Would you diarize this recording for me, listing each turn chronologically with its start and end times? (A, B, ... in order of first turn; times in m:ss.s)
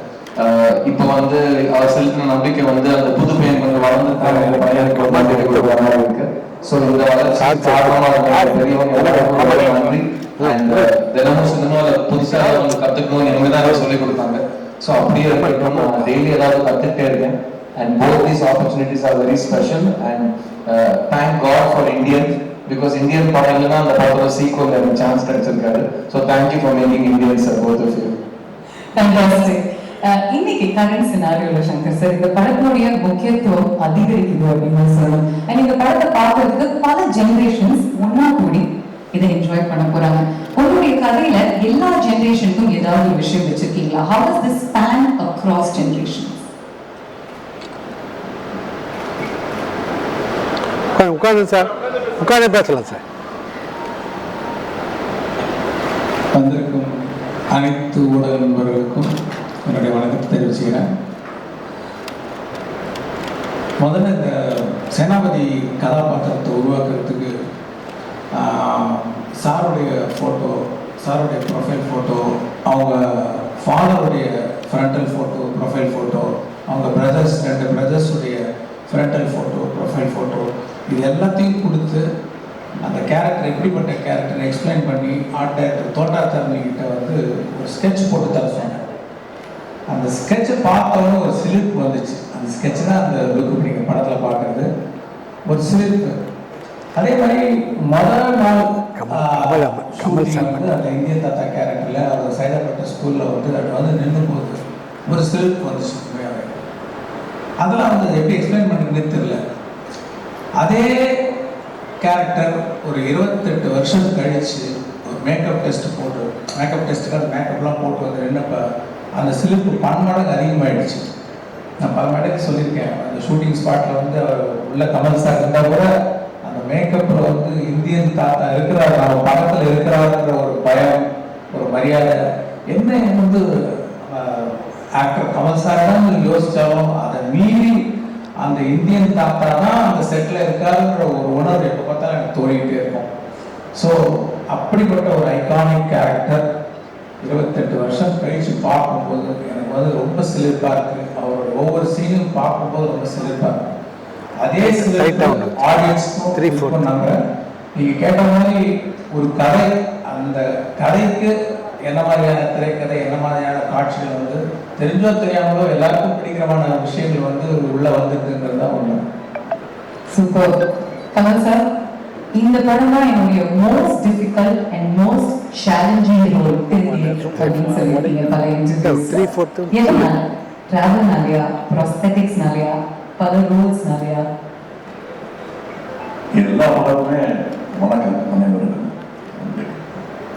0:00.4-0:28.2 A
0:04.2-0:05.9 B
0:07.4-0:10.9 B
0:15.3-0:16.1 B
0:29.0-0:46.4 C
0:51.0-0:53.0 B
0:56.3-0:56.9 D
0:57.5-0:59.1 D
0:59.6-1:00.9 D
1:03.8-1:07.4 D
1:08.4-1:22.0 D
1:22.8-1:28.8 D
1:29.9-1:34.7 D
1:35.5-1:36.2 D
1:37.0-1:46.6 D
1:39.0-1:40.6 B
1:47.6-1:49.4 D
1:50.6-1:51.3 D
1:52.0-2:01.1 D
2:01.8-2:05.9 D
2:06.4-2:12.2 D
2:12.7-2:17.8 D
2:18.4-2:23.1 D
2:23.7-2:26.5 D
2:27.2-2:33.7 D
2:34.4-2:37.2 D
2:34.6-2:35.6 B
2:36.4-2:36.9 B
2:37.8-2:41.3 D
2:41.9-2:49.0 D
2:50.1-2:50.6 C
2:51.1-2:51.7 C
2:52.4-3:04.3 C
2:56.8-3:00.0 B
3:06.4-3:09.8 E